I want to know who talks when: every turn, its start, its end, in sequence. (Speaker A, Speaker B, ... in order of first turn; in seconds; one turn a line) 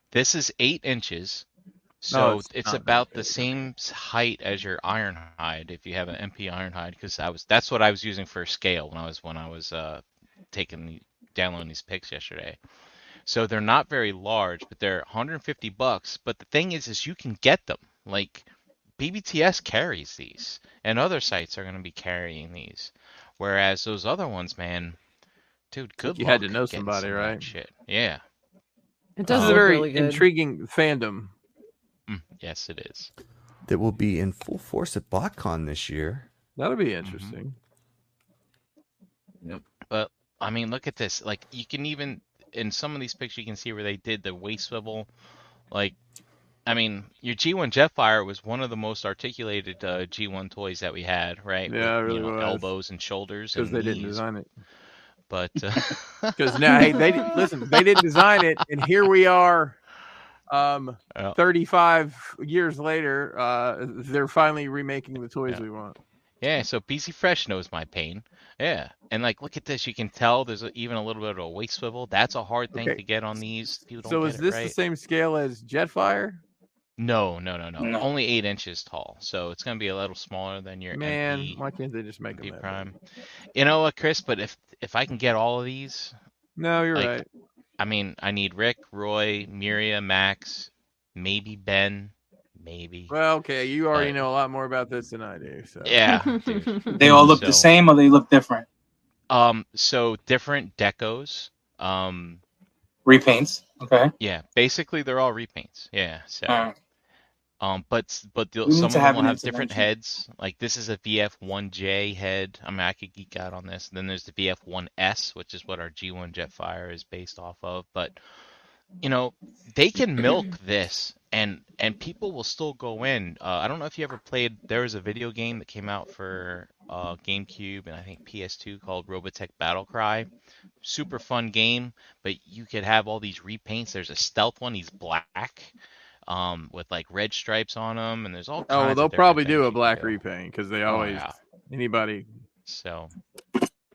Speaker A: 0.1-1.4
Speaker A: 2.0-12.6
Speaker B: 2.1-3.7
Speaker A: 13.2-18.4
Speaker A: 19.0-25.0
Speaker A: 25.7-28.2
Speaker B: 26.0-27.5
Speaker C: 29.2-30.3
Speaker B: 29.3-31.3
Speaker A: 29.3-29.7
Speaker A: 32.1-33.1
Speaker D: 33.6-36.2
Speaker B: 36.6-37.6
Speaker A: 37.0-37.4
Speaker A: 39.9-45.1
Speaker A: 45.7-46.0
Speaker A: 46.6-54.2
Speaker B: 51.7-52.7
Speaker B: 53.5-54.5
Speaker A: 55.3-58.0
Speaker B: 56.4-59.8
Speaker B: 60.5-66.0
Speaker A: 66.4-74.8
Speaker B: 72.7-73.0
Speaker B: 74.0-76.4
Speaker A: 77.0-81.6
Speaker E: 77.8-78.0
Speaker B: 80.9-82.9
Speaker A: 82.3-83.0
Speaker A: 83.5-86.1
Speaker B: 86.6-87.2
Speaker A: 86.9-87.2
Speaker A: 87.8-93.1
Speaker B: 93.1-96.0
Speaker A: 93.9-94.2
Speaker A: 95.8-97.7
Speaker C: 96.1-97.0
Speaker E: 96.9-98.7
Speaker A: 99.3-102.4
Speaker E: 103.0-104.1
Speaker A: 104.2-106.7
Speaker E: 106.5-106.7
Speaker A: 107.6-118.2
Speaker E: 108.7-109.8
Speaker A: 119.0-130.3
Speaker A: 130.8-135.7
Speaker A: 136.3-140.2
Speaker B: 138.7-142.3
Speaker A: 140.8-141.3
Speaker A: 142.7-143.1